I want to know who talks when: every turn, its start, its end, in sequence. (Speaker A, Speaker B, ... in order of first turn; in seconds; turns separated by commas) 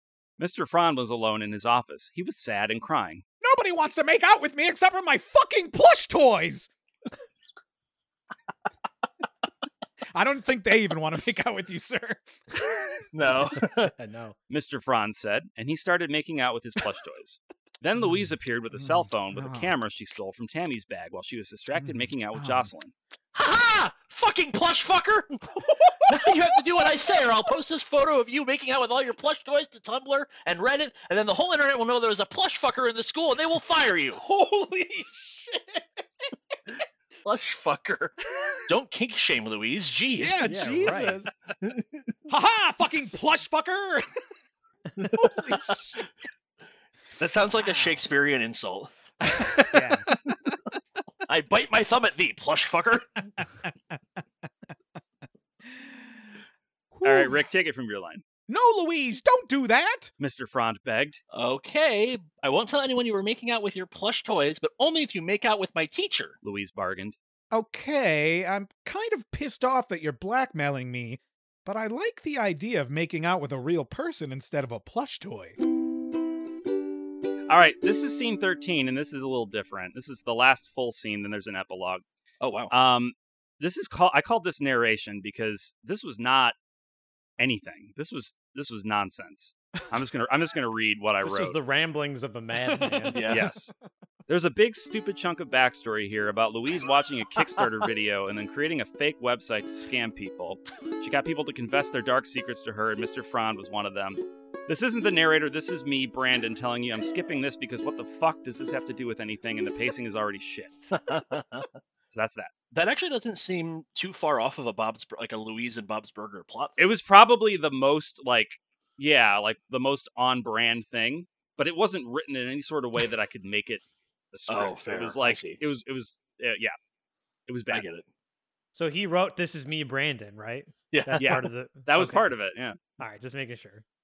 Speaker A: 0.4-3.2, Speaker B: 3.4-6.7, Speaker B: 10.2-12.7, Speaker C: 13.1-13.9, Speaker D: 13.9-14.4, Speaker A: 14.5-22.9, Speaker B: 18.8-19.7, Speaker B: 21.8-22.7, Speaker C: 23.3-25.5, Speaker B: 25.5-26.4, Speaker C: 26.1-34.2, Speaker B: 34.2-36.3, Speaker C: 37.2-40.5, Speaker B: 40.2-41.3, Speaker D: 40.5-41.2, Speaker C: 41.6-42.0, Speaker B: 42.3-44.1, Speaker C: 45.0-45.7, Speaker B: 45.1-46.1, Speaker C: 47.2-48.9, Speaker D: 47.6-48.0, Speaker D: 49.7-50.1, Speaker C: 51.3-53.2, Speaker B: 56.9-57.4, Speaker A: 57.0-58.2, Speaker B: 58.5-60.1, Speaker A: 60.2-61.2, Speaker C: 61.3-66.4, Speaker A: 66.4-67.2, Speaker B: 67.5-75.6, Speaker A: 77.5-82.0, Speaker C: 82.4-82.7, Speaker A: 82.7-86.5, Speaker A: 87.4-91.6, Speaker D: 91.2-93.3, Speaker C: 93.1-93.5, Speaker A: 93.3-93.7, Speaker A: 94.3-110.7, Speaker C: 110.9-111.7, Speaker A: 112.1-112.5, Speaker C: 112.7-116.8, Speaker A: 116.8-126.8, Speaker C: 124.5-125.6, Speaker A: 127.5-127.9, Speaker C: 127.7-128.1, Speaker D: 128.8-132.3, Speaker C: 130.9-131.4, Speaker A: 131.2-132.8, Speaker D: 133.0-133.8